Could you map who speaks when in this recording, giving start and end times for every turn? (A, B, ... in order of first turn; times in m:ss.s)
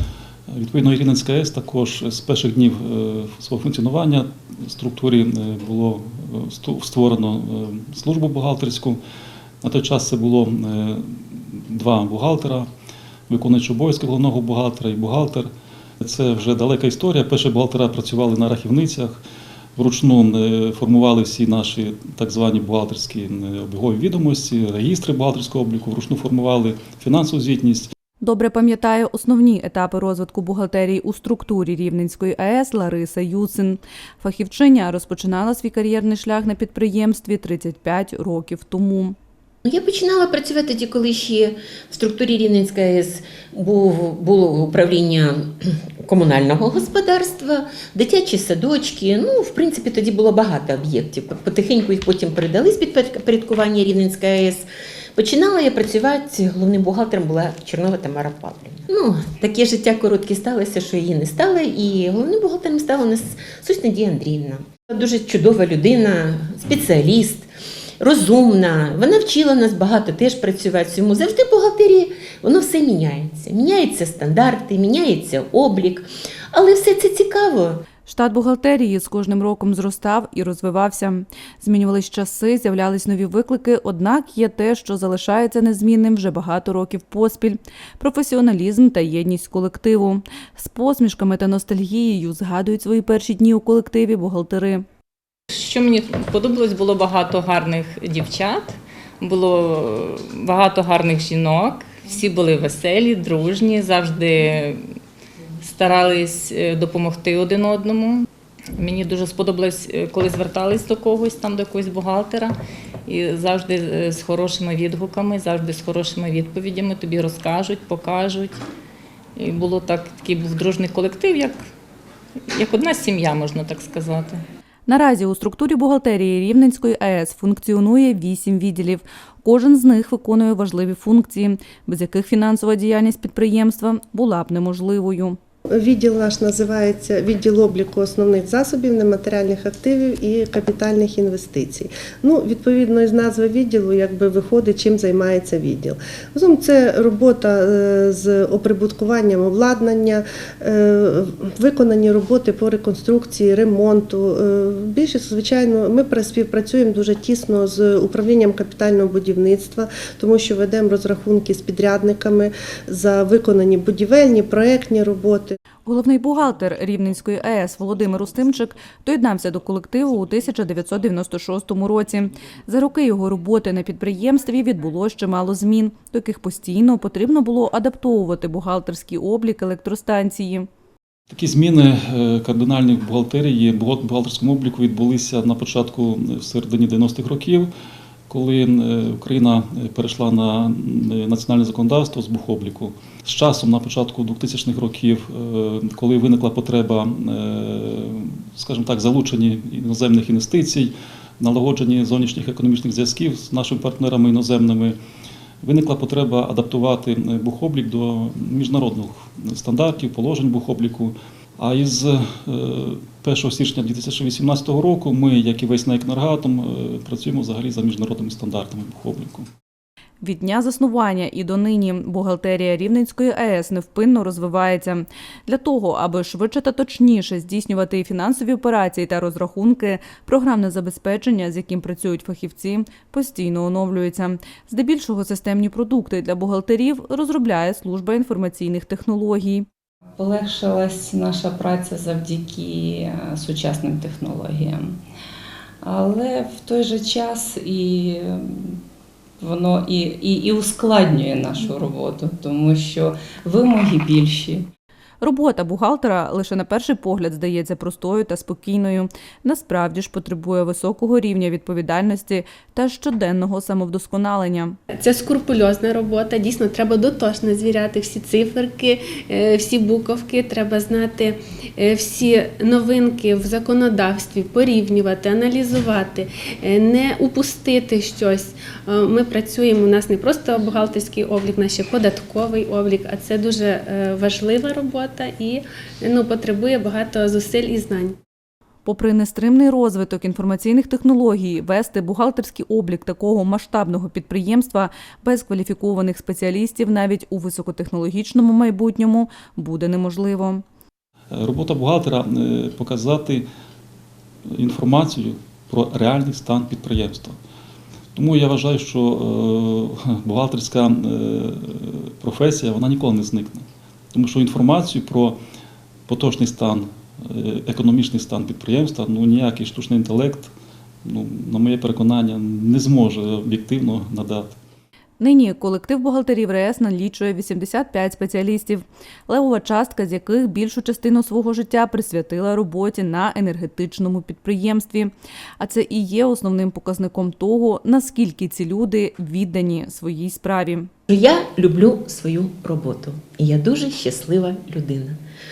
0:00.5-0:09.0 A
0:09.6-0:12.7 A
0:13.3-0:15.5 A
0:16.0-0:19.2 A
0:19.8-0:27.9 A
0:28.2-0:39.2 B
0:39.6-1:17.8 C
1:18.1-1:34.8 B
1:35.5-1:44.8 D
1:45.6-1:48.3 D
1:48.8-1:52.5 D
1:53.1-1:58.6 D
1:59.4-2:01.7 D
2:02.5-2:04.4 D
2:04.9-2:15.4 B
2:15.7-2:45.6 E
2:45.9-3:00.7 B
3:01.3-3:07.7 A
3:08.3-3:25.0 A
3:25.6-3:39.5 A
3:40.2-3:59.7 B
4:00.2-4:05.0 F
4:05.8-4:08.8 F
4:09.4-4:14.7 F
4:15.2-4:24.8 B
4:24.9-4:48.2 G
4:48.8-5:00.6 B
5:01.3-5:03.5 A
5:04.5-5:07.4 A
5:08.1-5:15.4 A
5:16.1-5:20.5 A
5:21.0-5:24.5 A
5:25.2-5:40.9 B
5:41.1-5:45.2 C